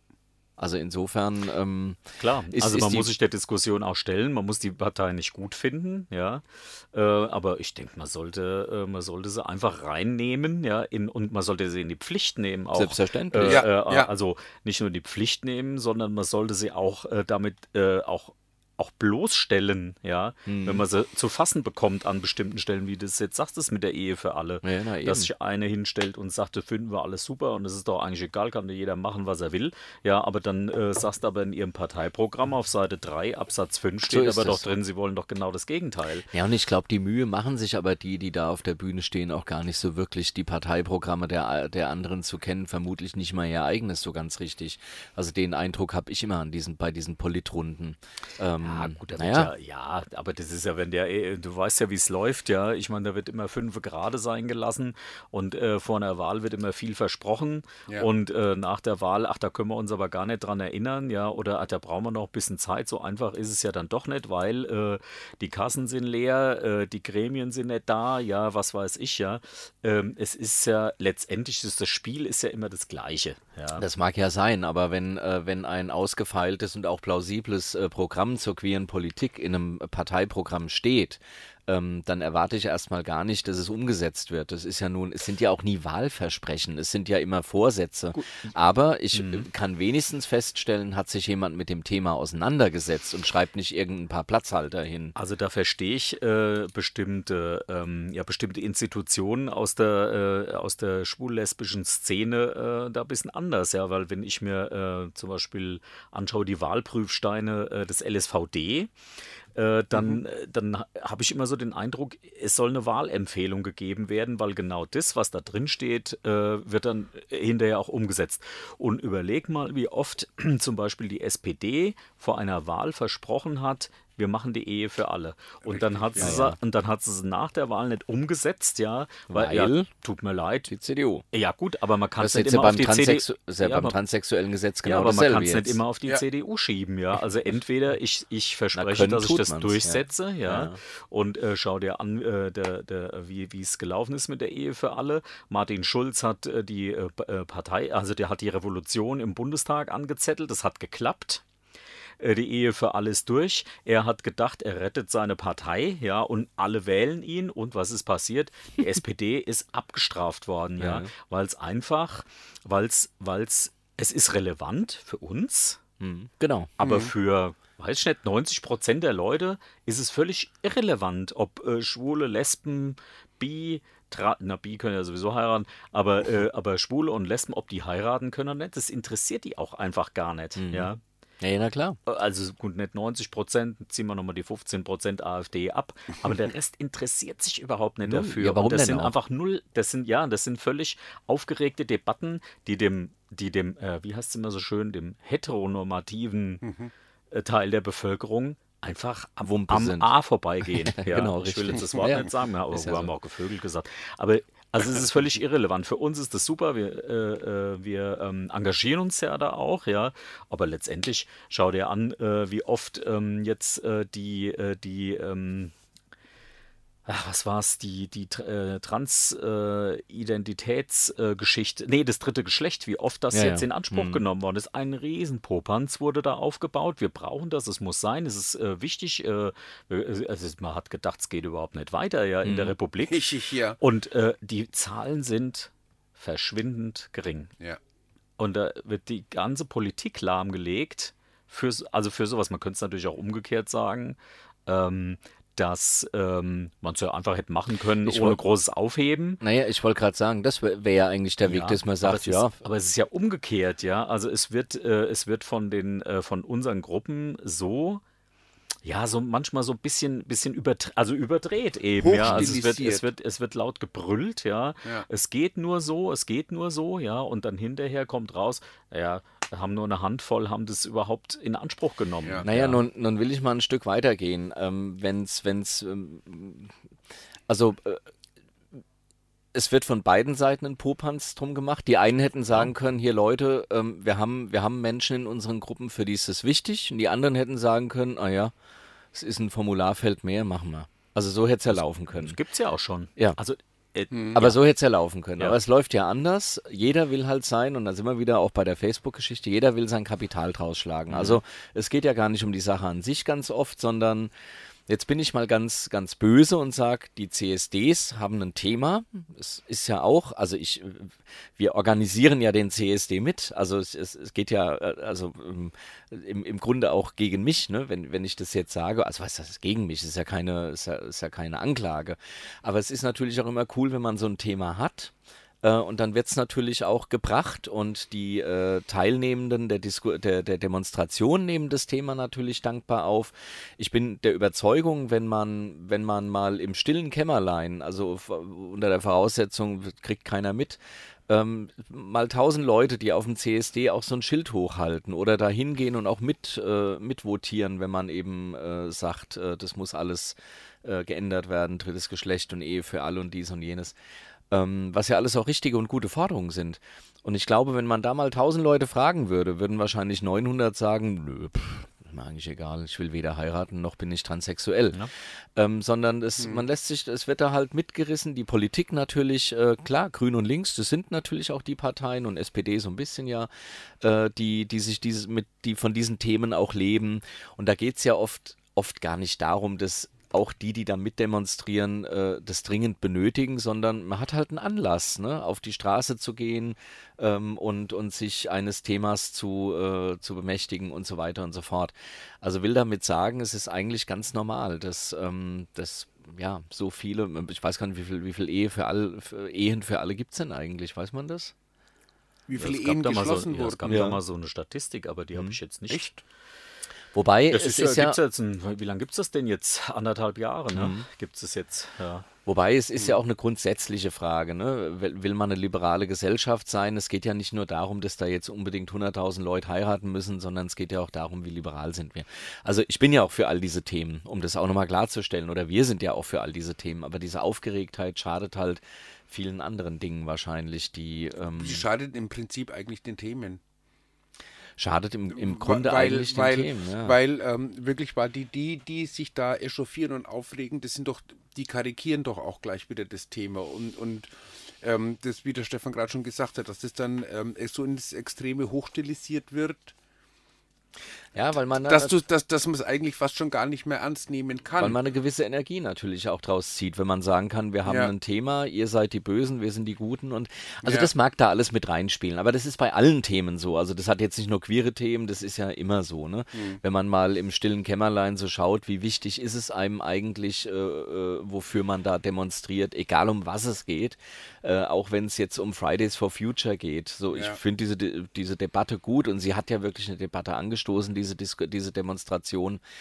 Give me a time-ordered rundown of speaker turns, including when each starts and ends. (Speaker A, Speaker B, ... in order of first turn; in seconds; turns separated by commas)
Speaker A: 0.6-2.0, Speaker B: 2.2-36.3, Speaker A: 2.5-3.1, Speaker A: 12.7-13.7, Speaker C: 13.4-14.1, Speaker A: 20.4-20.8, Speaker A: 24.6-25.3, Speaker A: 34.1-34.7, Speaker A: 36.3-49.5, Speaker B: 48.6-73.8, Speaker A: 73.8-95.1, Speaker B: 89.1-89.5, Speaker B: 95.1-108.9, Speaker B: 109.5-130.7, Speaker C: 109.9-110.2, Speaker C: 125.6-126.4, Speaker A: 126.2-126.6, Speaker A: 129.3-129.9, Speaker A: 130.7-131.2, Speaker B: 131.3-133.9, Speaker A: 132.2-135.8, Speaker B: 134.8-151.4, Speaker A: 138.7-140.8, Speaker B: 152.2-165.8, Speaker A: 160.8-161.1, Speaker A: 166.0-166.7, Speaker B: 166.8-181.0, Speaker C: 166.8-167.1, Speaker A: 180.6-182.0, Speaker B: 182.1-196.6, Speaker A: 188.0-189.1, Speaker C: 196.6-196.9, Speaker B: 197.3-215.7, Speaker A: 199.4-200.1, Speaker A: 200.7-203.1, Speaker B: 217.1-237.5, Speaker A: 223.3-224.2, Speaker A: 232.4-232.7, Speaker C: 233.1-233.8, Speaker B: 238.4-249.4, Speaker A: 248.0-248.4, Speaker A: 249.4-252.5, Speaker B: 251.4-258.0, Speaker B: 258.8-272.8, Speaker C: 262.0-263.1, Speaker A: 262.2-262.5, Speaker A: 272.4-276.7, Speaker A: 277.5-278.0, Speaker A: 279.5-288.5, Speaker A: 289.1-292.4, Speaker B: 291.7-294.6, Speaker C: 294.1-294.4, Speaker A: 294.3-304.3, Speaker B: 301.1-301.4, Speaker A: 304.9-353.9, Speaker A: 354.5-373.5, Speaker C: 366.4-366.6, Speaker A: 374.0-401.5, Speaker C: 402.5-404.1, Speaker B: 402.6-406.2, Speaker A: 403.9-404.2, Speaker A: 407.1-408.2, Speaker B: 407.5-412.2, Speaker A: 410.7-411.1, Speaker A: 412.4-431.9, Speaker C: 431.5-433.6, Speaker A: 434.8-437.2, Speaker C: 435.3-449.9, Speaker A: 451.3-452.2, Speaker C: 451.8-455.0, Speaker A: 454.8-482.8, Speaker C: 457.8-458.1, Speaker C: 460.8-461.1, Speaker C: 466.5-466.8, Speaker C: 477.3-477.6